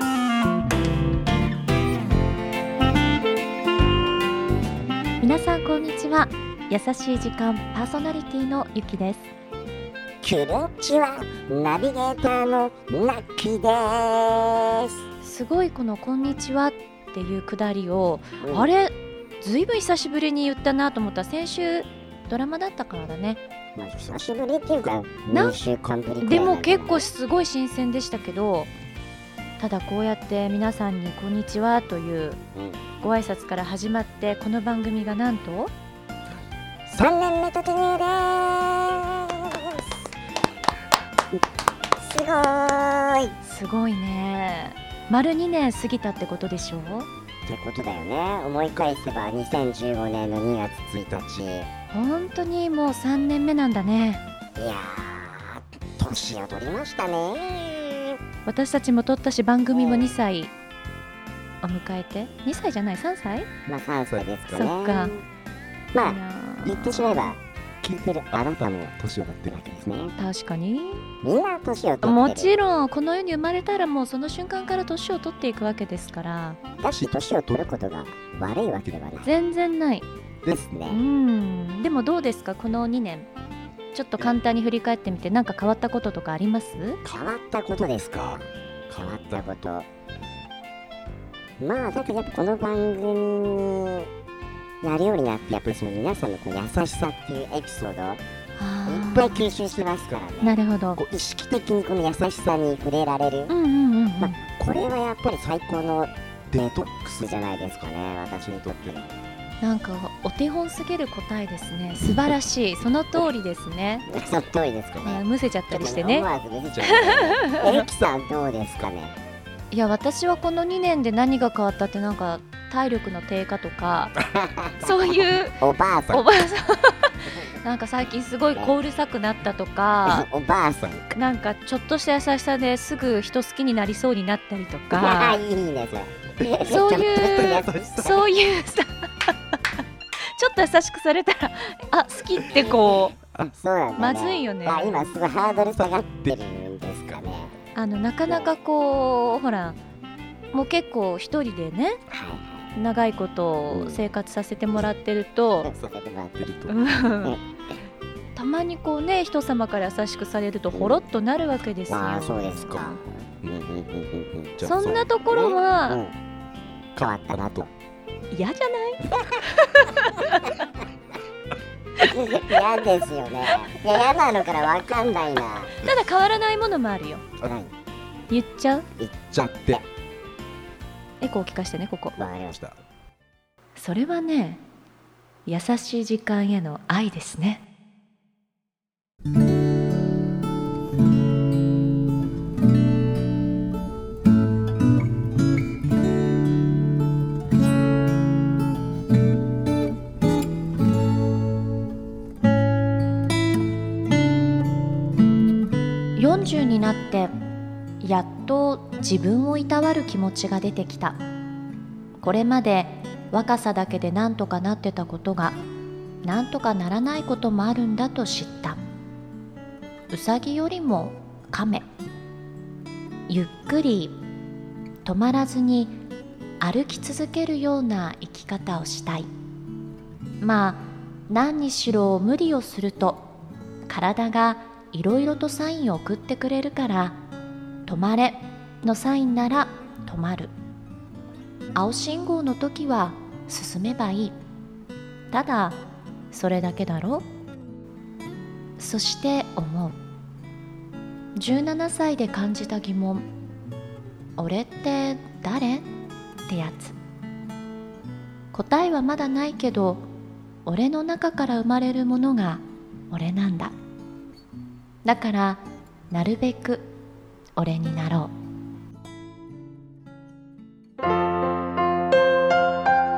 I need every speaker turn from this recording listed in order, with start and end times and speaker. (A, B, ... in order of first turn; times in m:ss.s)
0:05.2-0:09.3 A
0:10.2-0:15.0 B
0:15.2-0:23.4 A
0:18.4-0:18.7 B
0:23.8-0:27.1 B
0:25.3-0:25.6 A
0:26.2-0:28.7 A
0:29.6-0:32.4 A
0:32.5-0:32.8 B
0:33.0-0:35.7 A
0:36.8-0:39.9 B
0:42.0-0:43.4 B
0:43.4-0:47.1 A
0:47.4-0:51.7 B
0:51.9-0:54.2 A
0:54.6-0:58.2 B
0:58.4-1:00.5 A
0:59.7-1:00.2 B
1:01.6-1:03.5 A
1:03.7-1:05.2 B
1:04.5-1:05.2 A
1:05.9-1:10.2 B
1:06.0-1:07.3 A
1:10.2-1:11.0 A
1:11.2-1:12.5 B
1:12.0-1:16.6 A
1:16.8-1:19.3 B
1:19.2-1:20.1 A
1:20.4-1:21.0 B
1:20.9-1:23.3 A
1:23.9-1:27.0 A
1:27.0-1:29.9 B
1:31.6-1:34.1 B
1:34.8-1:38.2 B
1:38.6-1:39.4 A
1:38.8-1:43.5 B
1:40.4-1:41.0 A
1:43.5-1:44.4 A
1:44.2-1:49.2 B
1:49.6-1:54.0 A
1:54.1-1:59.2 B
1:55.0-1:56.3 A
1:56.8-1:57.8 A
1:59.7-2:04.1 A
2:04.2-2:06.3 B
2:04.8-2:10.3 A
2:07.3-2:07.6 B
2:10.0-2:11.1 B
2:11.1-2:15.4 A
2:14.9-2:18.2 B
2:16.6-2:19.6 A
2:20.2-2:23.2 A
2:23.2-2:27.6 B
2:24.0-2:25.0 A
2:27.7-2:29.8 A
2:30.5-2:32.0 A
2:32.1-2:32.7 B
2:32.7-2:35.7 A
2:33.7-2:34.1 B
2:35.6-2:37.4 B
2:36.7-2:37.4 A
2:38.3-2:42.9 A
2:40.7-2:41.0 B
2:41.9-2:46.2 B
2:44.6-2:46.0 A
2:46.9-2:47.7 B
2:48.3-2:50.6 A
2:49.1-2:49.4 B
2:52.0-2:55.7 B
2:55.8-2:57.2 A
2:57.4-2:57.7 B
2:58.3-2:58.8 A
2:59.0-2:59.9 B
3:01.2-3:02.2 A
3:02.2-3:02.8 B
3:03.7-3:04.6 A
3:05.4-3:07.6 A
3:26.2-3:27.3 A
3:28.0-3:31.2 A
3:32.2-3:35.6 A
3:36.2-3:38.8 A
3:40.1-3:41.9 A
3:43.3-3:44.2 A
3:45.0-3:46.0 A
3:46.6-3:49.3 A
3:50.4-3:53.3 A
3:53.9-3:57.2 A
3:57.8-4:00.5 A
4:01.7-4:04.3 A
4:05.3-4:05.8 A
4:06.3-4:07.2 A
4:08.8-4:10.0 A
4:11.4-4:13.2 A
4:14.4-4:15.9 A
4:16.5-4:17.0 A
4:18.5-4:20.0 A
4:20.6-4:23.7 A
4:25.0-4:26.9 A
4:27.6-4:28.3 A